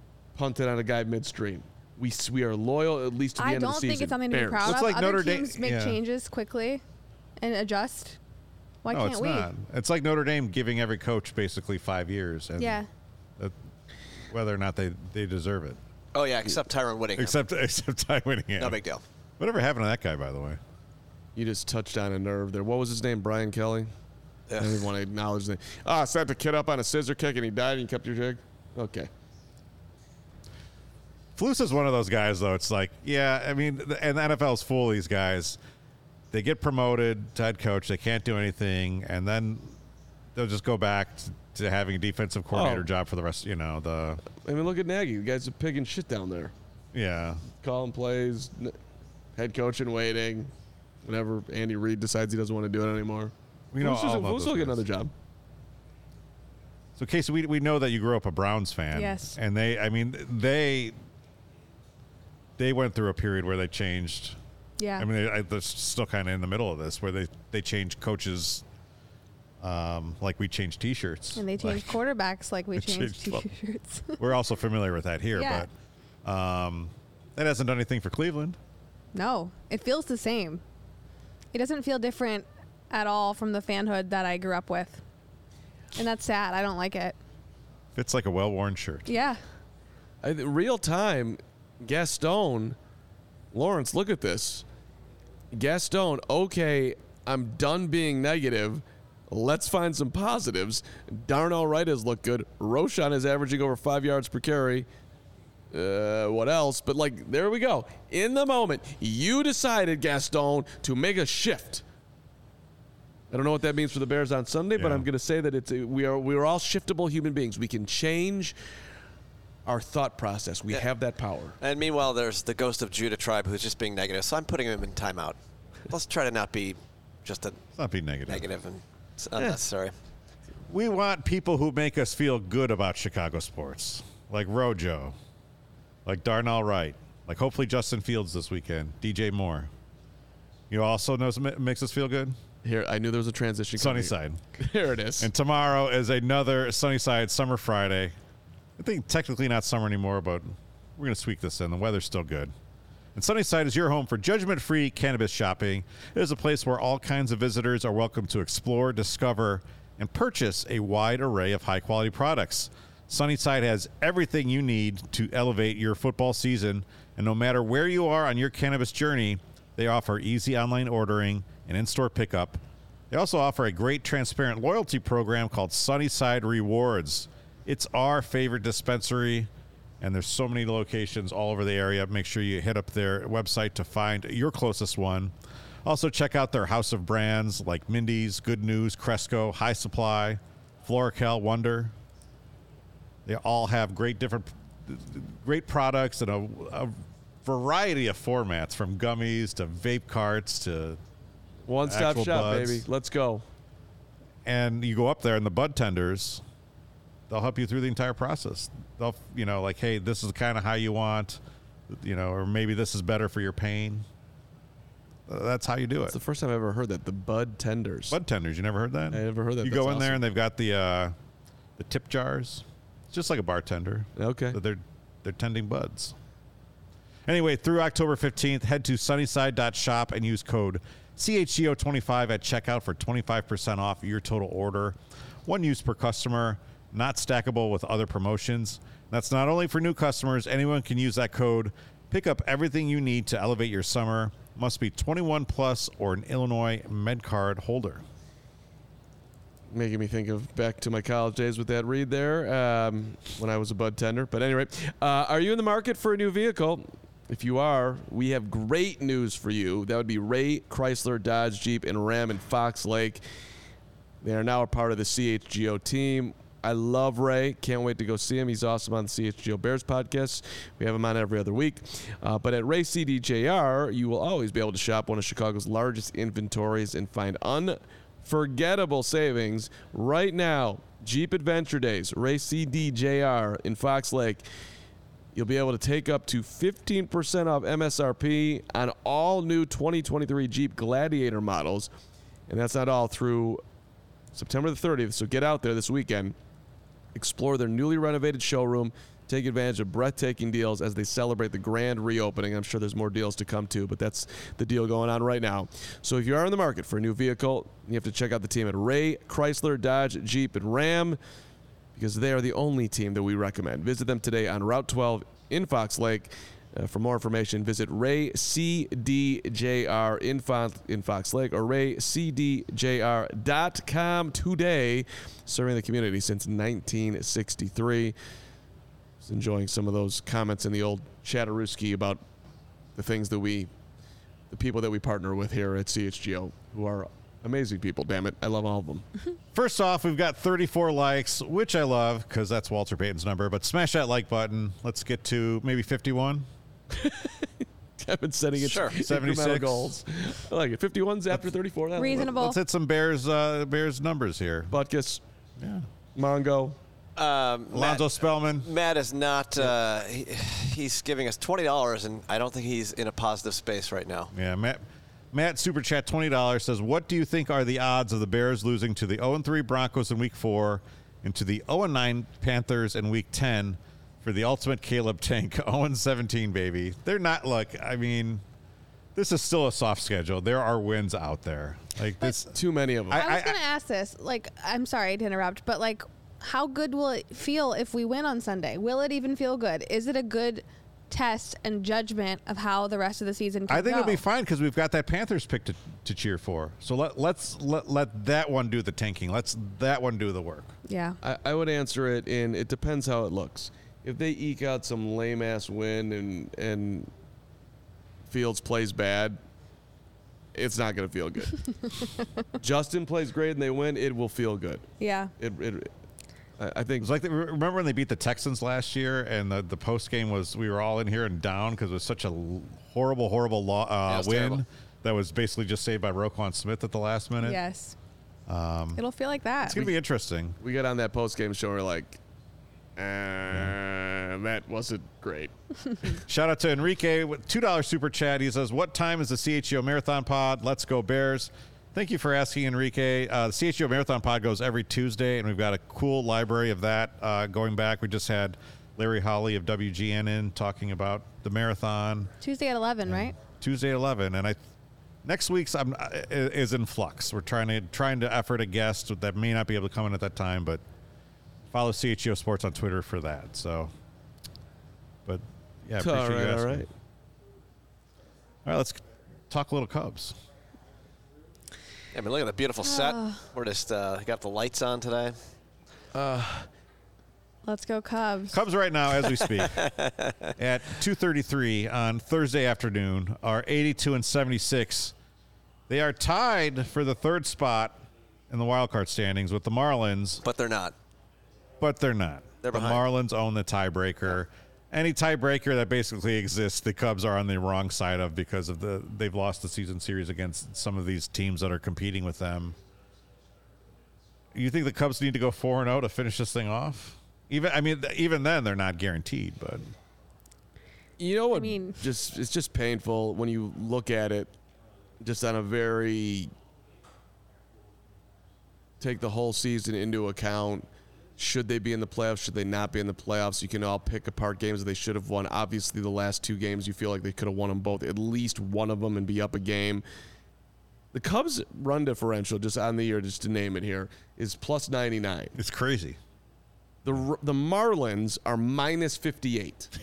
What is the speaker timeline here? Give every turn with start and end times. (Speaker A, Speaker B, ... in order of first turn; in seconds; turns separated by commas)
Speaker A: 0.3-4.8, Speaker B: 3.4-6.8, Speaker C: 4.6-6.0, Speaker B: 7.4-8.2, Speaker B: 8.8-9.5, Speaker C: 8.9-12.8, Speaker B: 12.6-12.9, Speaker C: 14.3-15.8, Speaker D: 16.1-17.4, Speaker C: 17.2-18.8, Speaker D: 18.6-19.0, Speaker C: 19.4-20.6, Speaker A: 21.4-23.9, Speaker D: 24.5-24.9, Speaker A: 24.6-29.1, Speaker C: 31.4-35.6, Speaker C: 36.3-39.8, Speaker C: 40.4-44.2, Speaker A: 42.5-42.9, Speaker A: 44.4-46.5, Speaker C: 46.9-47.5, Speaker A: 47.6-48.8, Speaker A: 49.4-50.5, Speaker A: 51.0-55.1, Speaker C: 53.7-54.8, Speaker C: 57.0-61.0, Speaker B: 58.9-59.4, Speaker C: 62.6-64.4, Speaker B: 64.8-65.1, Speaker C: 65.0-68.6, Speaker C: 69.6-72.0, Speaker B: 71.4-74.2, Speaker C: 72.8-73.5, Speaker C: 74.2-75.7, Speaker B: 75.3-75.7, Speaker C: 76.2-78.6, Speaker B: 79.1-80.6, Speaker B: 81.5-85.0, Speaker B: 86.0-87.2, Speaker C: 88.0-89.1, Speaker B: 89.1-89.4, Speaker A: 90.2-92.8, Speaker A: 93.5-94.7, Speaker A: 95.5-104.9, Speaker A: 105.7-111.8, Speaker A: 113.3-118.6, Speaker C: 114.8-115.1, Speaker A: 119.7-121.6, Speaker D: 121.6-125.4, Speaker D: 125.9-127.6, Speaker C: 127.8-128.5, Speaker D: 128.3-129.9, Speaker C: 130.7-135.2, Speaker C: 136.1-139.7, Speaker C: 140.7-142.4, Speaker A: 142.6-145.3, Speaker C: 143.8-144.4, Speaker C: 145.2-148.2, Speaker C: 148.8-152.5, Speaker C: 153.2-179.5, Speaker C: 180.0-185.3, Speaker C: 185.8-191.9, Speaker C: 193.3-201.0, Speaker A: 201.7-203.4, Speaker C: 201.8-202.9, Speaker C: 204.4-206.4, Speaker C: 207.3-214.1, Speaker C: 215.3-216.2, Speaker A: 216.1-218.2, Speaker C: 218.1-221.2, Speaker A: 219.1-220.2, Speaker C: 221.8-226.2, Speaker A: 224.2-224.6, Speaker C: 227.3-248.0, Speaker A: 249.7-263.2, Speaker A: 264.2-284.4, Speaker A: 285.3-291.9, Speaker A: 292.5-293.6, Speaker A: 294.3-296.4, Speaker A: 297.1-311.2, Speaker A: 311.9-328.2, Speaker A: 329.2-332.2, Speaker A: 332.9-333.7, Speaker A: 334.5-339.1, Speaker C: 339.5-346.5, Speaker A: 346.9-352.4, Speaker D: 348.6-349.0, Speaker C: 348.9-350.0, Speaker B: 352.0-352.6, Speaker C: 352.1-354.7, Speaker A: 354.7-355.2, Speaker C: 355.6-355.9, Speaker A: 356.1-356.8, Speaker D: 357.2-364.3, Speaker C: 357.7-358.7, Speaker C: 364.3-378.4, Speaker C: 379.1-382.5, Speaker A: 382.5-383.3, Speaker C: 383.1-383.6, Speaker B: 383.1-394.2, Speaker C: 393.7-400.7, Speaker B: 400.9-401.2, Speaker A: 401.2-407.1, Speaker A: 408.3-409.4, Speaker A: 410.5-412.1, Speaker A: 412.6-414.8, Speaker B: 415.0-415.3, Speaker A: 415.4-415.9, Speaker A: 416.6-417.1, Speaker C: 417.0-427.6, Speaker D: 424.1-424.6, Speaker B: 427.4-428.0, Speaker C: 428.5-429.0, Speaker B: 428.9-429.9, Speaker C: 429.6-430.6, Speaker A: 430.6-432.2, Speaker A: 433.0-435.5, Speaker C: 433.5-433.8, Speaker C: 436.2-452.3, Speaker B: 452.4-453.4, Speaker C: 453.1-454.6, Speaker C: 455.2-460.8, Speaker C: 461.7-463.9, Speaker C: 465.3-466.9, Speaker A: 466.0-466.9, Speaker C: 468.6-470.4, Speaker D: 472.1-475.4, Speaker B: 472.8-473.4, Speaker A: 476.1-476.7, Speaker B: 477.7-478.6, Speaker C: 478.5-479.9, Speaker D: 479.6-480.3, Speaker C: 480.6-485.1, Speaker C: 485.9-490.4, Speaker D: 490.4-490.9, Speaker C: 491.8-502.8, Speaker D: 492.6-493.0, Speaker C: 504.5-509.9, Speaker A: 511.2-514.5, Speaker B: 511.5-512.0, Speaker A: 515.2-516.5, Speaker A: 519.0-520.9, Speaker A: 521.4-530.0, Speaker A: 531.1-535.5, Speaker C: 535.5-536.2, Speaker A: 537.0-539.9